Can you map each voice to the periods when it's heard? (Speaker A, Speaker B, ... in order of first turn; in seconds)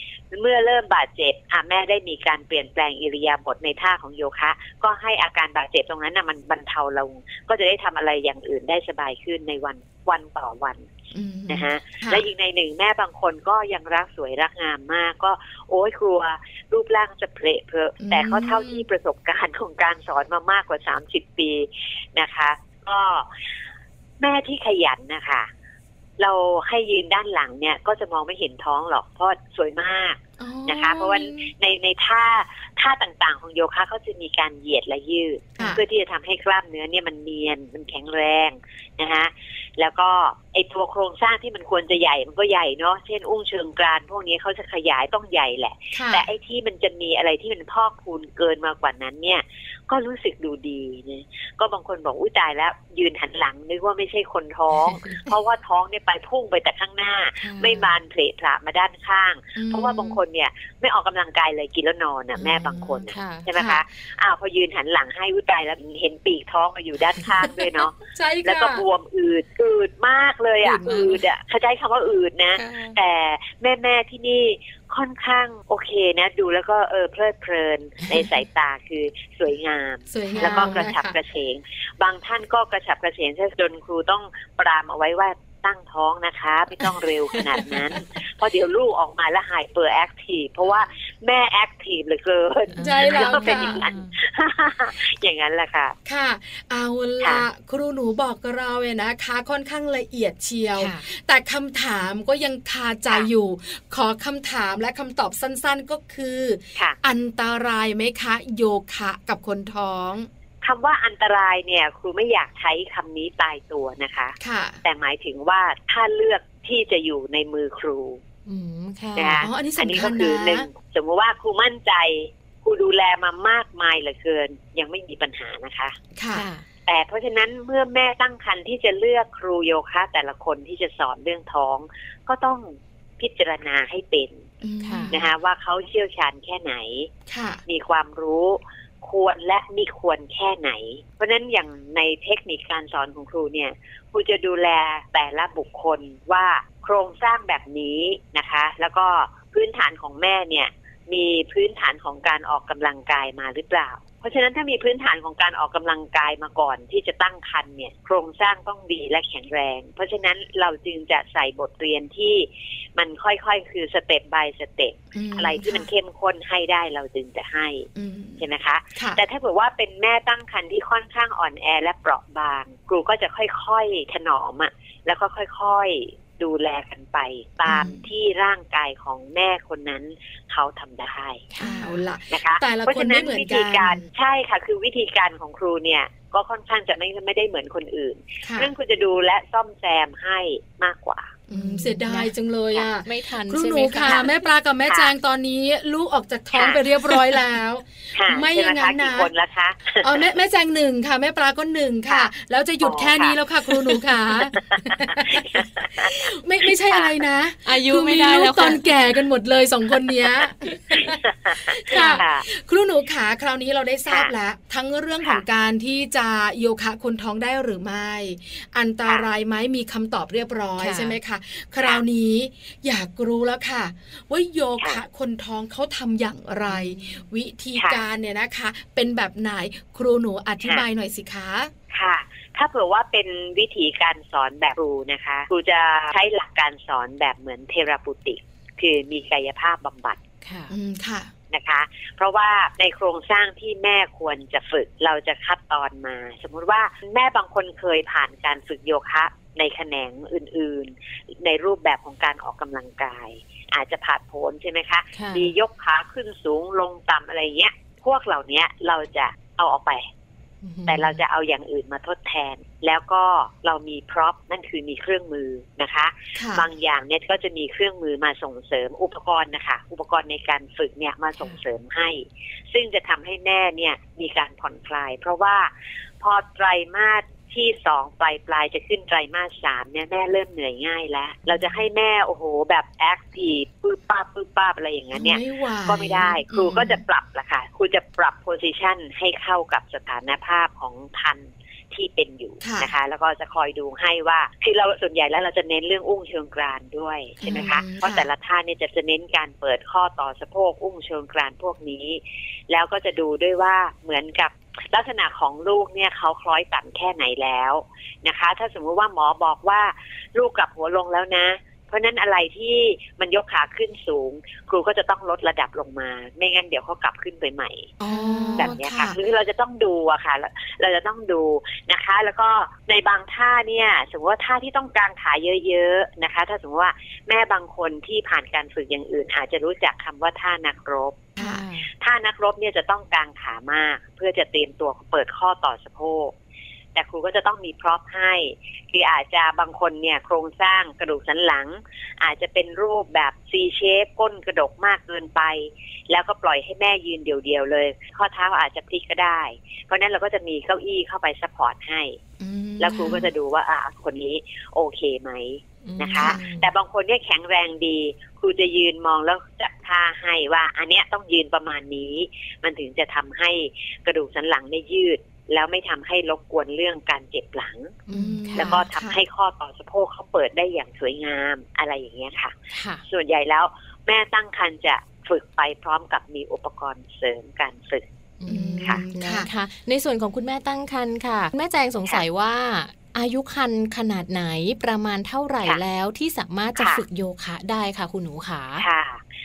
Speaker A: 0.3-10.9, 11.5-23.3, 24.2-25.5, 26.2-96.0, 110.6-118.2, 119.1-126.0, 126.8-134.5, 135.1-137.1, 137.7-181.5, 182.3-191.4, 196.5-196.8, 198.1-200.2, 202.8-203.7, 204.6-206.1, 210.9-212.4, 227.7-228.0, 231.9-240.2, 241.5-260.1, 260.9-318.0, 318.6-331.2, 332.0-336.3, 336.9-352.2, 352.8-368.0, 368.6-378.0, 386.8-387.0, 388.8-389.2
Speaker B: 11.1-12.2, 18.0-18.9, 30.4-31.5, 45.9-46.2, 59.5-60.2, 63.5-63.8, 68.1-68.8, 70.6-71.2, 80.1-81.2, 92.8-93.8, 96.0-110.3, 114.4-114.8, 119.4-120.7, 126.1-126.5, 134.6-135.2, 137.3-137.6, 165.1-165.9, 167.9-168.4, 168.9-169.2, 177.7-178.0, 181.6-184.1, 188.4-188.7, 191.5-199.3, 200.0-231.7, 240.7-241.3, 266.3-266.6, 285.1-287.0, 292.6-292.9, 297.4-298.3, 318.0-319.2, 331.4-331.6, 352.4-353.3, 356.2-356.6, 368.1-369.2, 378.5-379.5
Speaker C: 54.8-55.2, 57.4-57.9, 62.4-63.5, 72.5-73.0, 80.3-80.8, 92.7-94.1, 100.8-101.0, 118.5-119.5, 126.3-126.6, 134.8-135.1, 181.5-182.0, 191.5-192.3, 193.0-194.3, 207.6-208.8, 220.8-221.2, 226.7-227.2, 240.4-240.7, 255.1-255.5, 260.6-261.2, 318.0-318.7, 331.4-331.9, 355.8-356.6, 368.1-368.8, 372.7-373.0, 378.4-388.8